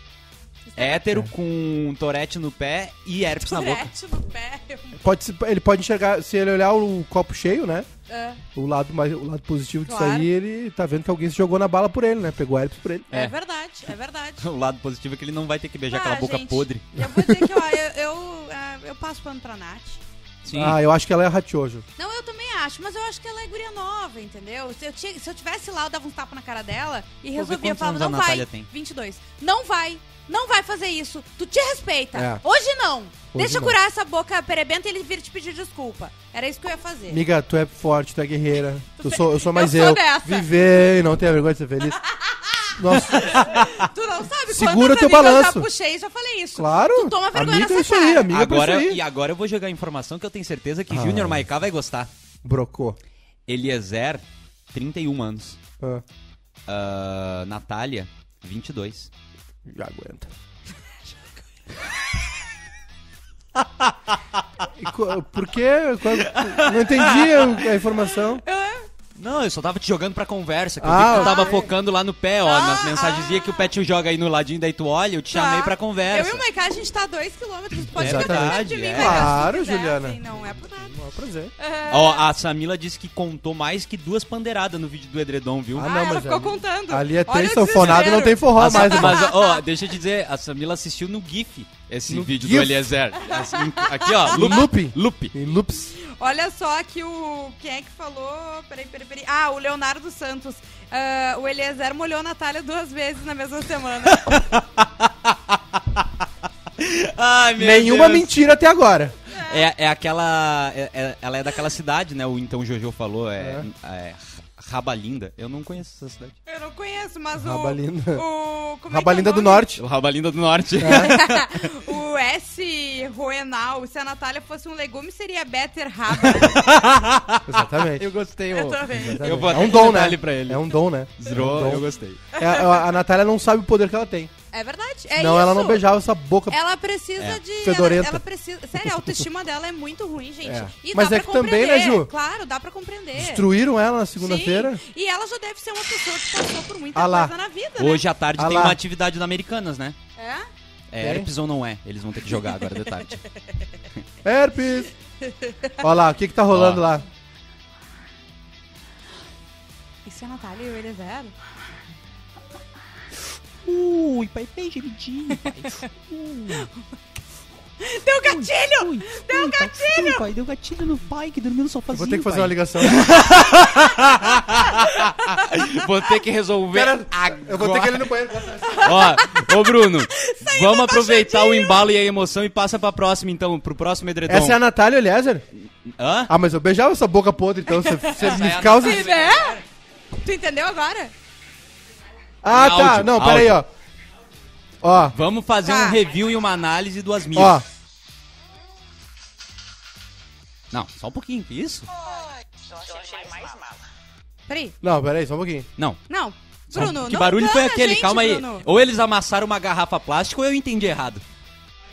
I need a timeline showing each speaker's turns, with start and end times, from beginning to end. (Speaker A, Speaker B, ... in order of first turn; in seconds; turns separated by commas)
Speaker A: 0.7-1.0, Speaker B: 0.8-3.9, Speaker A: 3.4-5.0, Speaker C: 5.0-7.9, Speaker A: 8.1-8.4, Speaker C: 8.5-13.1, Speaker A: 9.8-10.3, Speaker A: 13.1-14.4, Speaker B: 14.4-16.9, Speaker A: 15.9-20.0, Speaker C: 17.0-17.4, Speaker B: 20.4-20.8, Speaker C: 20.5-21.8, Speaker A: 22.0-37.2, Speaker B: 27.4-28.7, Speaker C: 32.1-32.4, Speaker C: 33.3-33.8, Speaker C: 37.1-42.0, Speaker A: 39.0-40.5, Speaker A: 42.1-48.3, Speaker C: 42.8-43.6, Speaker C: 44.5-45.7, Speaker C: 46.5-49.0, Speaker B: 48.3-52.1, Speaker C: 50.9-51.4, Speaker C: 52.4-53.0, Speaker B: 53.5-55.6, Speaker B: 56.7-59.1, Speaker C: 59.7-60.3, Speaker B: 63.6-64.2, Speaker C: 64.8-68.4, Speaker B: 66.1-67.7, Speaker A: 68.4-68.9, Speaker B: 69.2-76.4, Speaker C: 70.8-71.6, Speaker A: 71.0-71.7, Speaker A: 72.4-73.7, Speaker A: 75.3-81.0, Speaker B: 78.0-79.3, Speaker C: 78.0-80.2, Speaker C: 80.9-81.5, Speaker A: 81.6-82.2, Speaker B: 81.9-85.9, Speaker C: 85.7-89.2, Speaker A: 85.8-89.6, Speaker B: 87.7-95.3, Speaker C: 92.1-92.9, Speaker A: 93.3-94.4, Speaker C: 94.3-95.9, Speaker A: 96.0-104.3, Speaker B: 104.0-106.0, Speaker B: 106.8-108.3, Speaker C: 107.6-109.1, Speaker A: 109.3-109.6, Speaker B: 109.5-116.3, Speaker C: 113.4-113.7, Speaker A: 116.5-119.7, Speaker C: 117.4-118.2, Speaker C: 118.9-119.8, Speaker B: 119.8-121.8, Speaker C: 120.8-121.2, Speaker A: 120.9-126.7, Speaker B: 126.2-132.2, Speaker C: 127.5-128.0, Speaker A: 128.5-129.8, Speaker C: 128.9-134.3, Speaker A: 132.4-132.8, Speaker A: 134.5-135.8, Speaker C: 135.2-136.6, Speaker A: 136.5-143.5, Speaker C: 137.6-138.2, Speaker C: 140.4-142.1, Speaker C: 143.2-144.8, Speaker A: 144.2-148.0, Speaker C: 146.9-147.3, Speaker B: 147.8-149.9, Speaker C: 148.4-148.8, Speaker A: 150.2-150.5, Speaker B: 150.9-153.2, Speaker C: 151.0-151.3, Speaker C: 154.2-154.9, Speaker A: 155.2-155.8, Speaker C: 155.8-157.0, Speaker B: 156.5-156.8, Speaker A: 160.0-161.3, Speaker B: 163.6-166.7, Speaker A: 165.4-165.9, Speaker A: 166.6-167.0, Speaker A: 167.8-170.2, Speaker B: 168.2-178.1, Speaker C: 171.9-173.2, Speaker A: 173.4-175.4, Speaker C: 176.7-179.2, Speaker A: 178.7-181.8, Speaker B: 178.8-184.6, Speaker C: 184.3-185.4, Speaker B: 186.0-186.3, Speaker C: 186.3-189.1, Speaker A: 187.7-189.6, Speaker B: 188.1-189.6, Speaker A: 190.2-191.1, Speaker C: 192.4-193.7, Speaker B: 192.5-193.6, Speaker C: 194.8-195.2, Speaker B: 195.1-197.6, Speaker A: 195.6-196.0, Speaker C: 197.3-197.6, Speaker B: 200.7-201.9, Speaker A: 204.5-204.8, Speaker C: 204.8-205.7, Speaker A: 206.1-208.7, Speaker B: 206.7-211.2